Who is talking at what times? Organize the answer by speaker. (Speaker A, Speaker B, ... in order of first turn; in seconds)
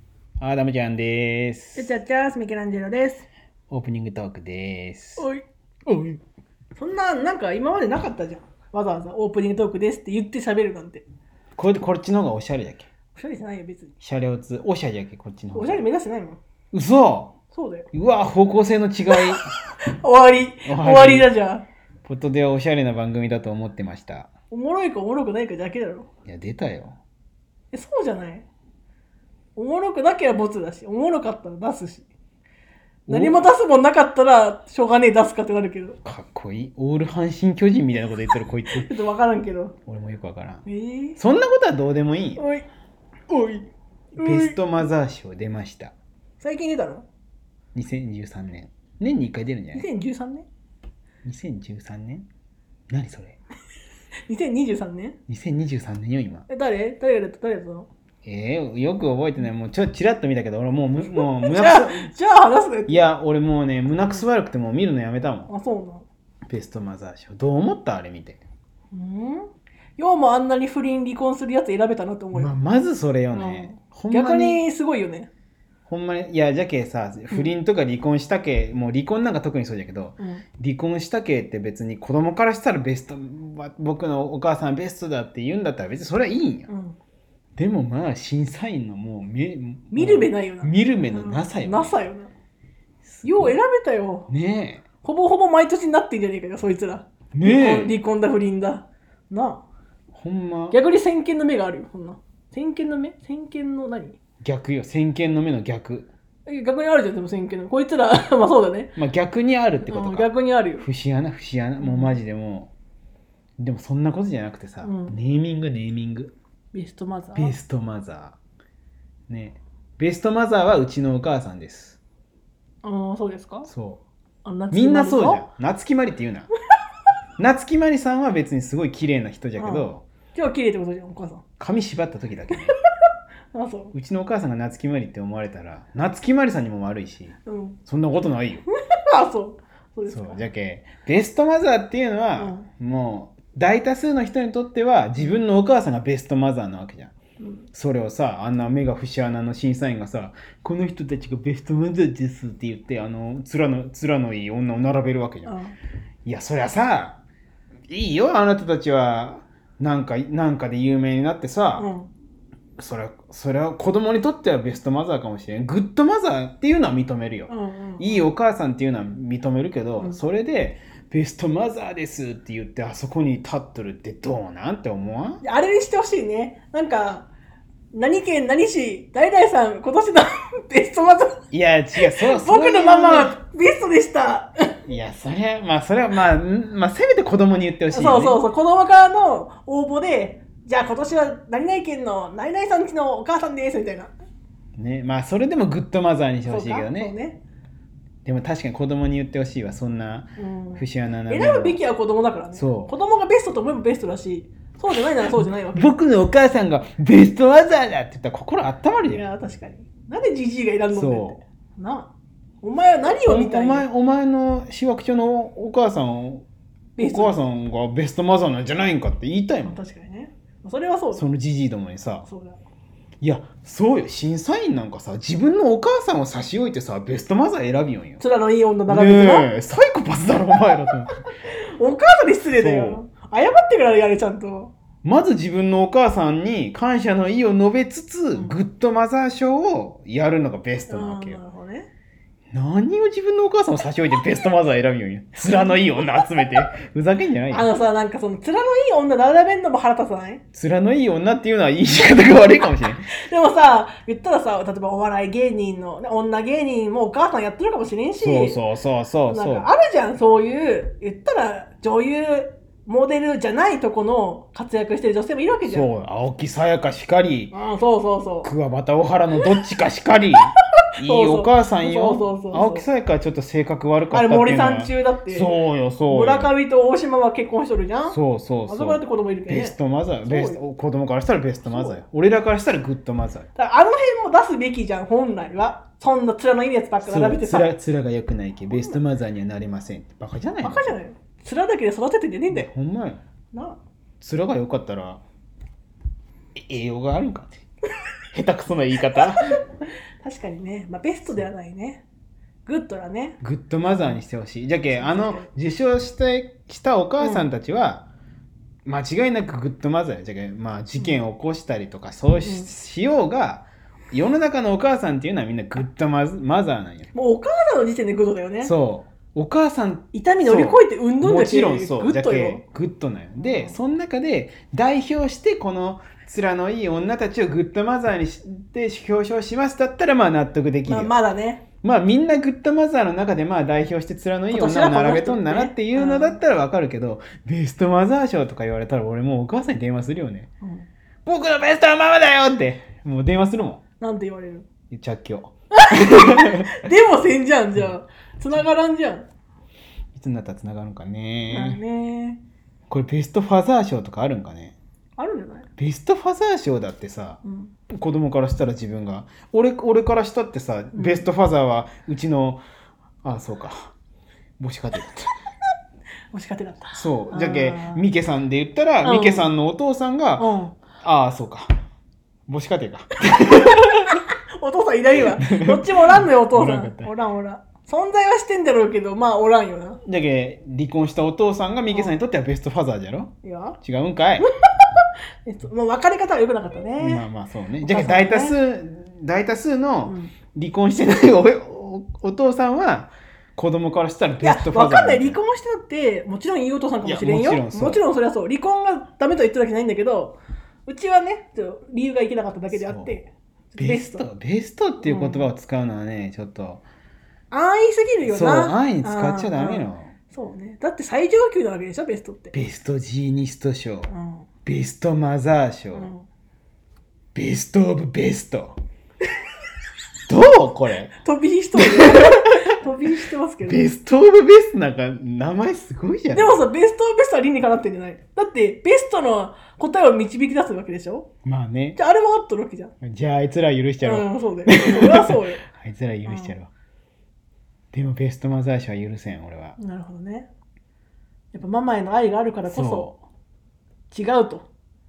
Speaker A: 0.4-1.9, 3.7-5.3, 5.9-6.2, 11.6-12.9, 14.0-15.8, 16.7-17.4, 17.9-19.4, 20.6-21.3, 22.0-24.3, 26.2-26.9, 33.1-33.5, 36.0-38.9, 39.9-40.6, 41.2-42.4, 43.3-43.6, 44.2-45.9, 47.7-49.9, 51.2-52.2, 52.9-53.4, 55.3-56.5, 58.2-62.1, 62.9-65.5, 66.5-68.4, 72.3-74.6, 75.9-86.7, 87.6-91.9, 93.0-93.5, 94.3-94.8, 97.3-97.9, 100.1-100.8, 104.4-106.1, 109.0-112.7, 113.6-116.3, 117.3-118.4, 119.3-122.0, 123.7-124.0, 124.7-126.5, 127.4-130.0, 131.6-132.7, 133.9-138.7, 140.1-147.1, 147.7-155.5, 156.2-157.2, 157.9-161.9, 162.8-175.4, 181.5-183.3, 184.8-188.4, 194.8-197.1, 198.2-201.8, 202.5-202.9, 205.3-209.2, 210.9-211.4, 213.2-216.4, 217.0-219.8, 221.1-222.3, 223.2-228.2, 228.9-231.1, 232.6-233.0, 235.0-241.4, 242.5-247.7, 250.5-253.1, 258.2-259.7, 265.6-267.5, 268.4-276.5, 278.1-283.5, 287.0-290.9, 292.5-293.2, 294.2-295.2, 296.6-297.6, 298.3-299.6, 303.4-308.1, 308.9-317.1, 318.6-331.1, 331.8-340.5, 341.2-343.8, 344.9-346.8, 350.1-351.8, 352.9-354.8, 355.8-362.6, 363.2-363.9, 364.6-365.3, 366.9-370.5, 371.0-371.7, 372.5-373.9, 375.4-377.1, 380.0-384.5, 387.0-395.4, 397.0-398.0, 402.7-403.2, 403.8-406.8, 408.2-410.1, 412.5-414.1, 414.6-416.1, 417.3-418.8, 420.3-421.1, 421.8-422.8, 423.6-426.6, 431.4-432.0, 433.0-436.7, 437.9-439.8, 442.6-443.2
Speaker B: 1.8-3.3, 5.2-5.4, 6.8-11.0, 13.1-13.9, 15.5-16.4, 17.5-17.9, 19.1-21.6, 24.5-26.1, 27.7-28.4, 29.6-32.0, 33.1-36.0, 38.7-39.7, 40.6-41.2, 42.4-42.6, 44.1-44.6, 46.4-47.1, 49.7-50.5, 54.3-55.2, 56.5-57.9, 61.1-63.0, 65.5-66.0, 68.9-72.5, 73.3-75.3, 86.7-87.0, 89.9-92.3, 93.2-94.3, 95.0-99.6, 100.7-104.2, 106.5-109.0, 109.8-110.9, 111.8-112.2, 114.8-115.2, 116.7-117.5, 122.8-123.7, 124.4-125.4, 129.6-131.4, 133.5-133.9, 137.4-137.8, 138.7-140.4, 142.4-142.7, 147.4-147.6, 155.4-155.8, 161.7-162.1, 167.5-168.3, 175.4-177.3, 177.9-181.4, 182.0-184.8, 187.9-194.1, 196.4-197.4, 200.4-205.9, 209.1-213.9, 217.0-217.4, 219.6-221.2, 222.2-222.6, 228.2-229.5, 231.5-234.7, 240.9-241.9, 245.4-246.4, 247.5-250.4, 253.1-258.6, 259.3-265.9, 267.5-268.5, 271.0-272.9, 274.1-280.6, 281.6-282.0, 283.6-287.7, 288.7-289.0, 290.6-292.7, 293.5-293.8, 300.2-302.0, 302.6-304.2, 304.9-305.5, 307.2-307.4, 312.4-312.7, 317.1-318.7, 320.1-322.6, 323.4-323.8, 330.8-331.6, 334.5-336.4, 340.6-340.9, 344.0-344.6, 345.7-349.3, 351.5-352.4, 355.2-355.7, 357.4-357.7, 360.9-361.3, 366.3-368.0, 369.0-369.5, 370.4-370.7, 373.3-380.0, 383.4-383.8, 384.4-387.3, 387.8-388.6, 390.0-390.3, 394.4-404.2, 405.0-405.5, 407.5-412.5, 414.1-414.5, 415.9-416.2, 421.2-423.9, 426.3-431.3, 431.9-432.9, 434.0-435.6, 436.2-436.5, 439.8-440.5, 441.5-443.1, 444.1-444.7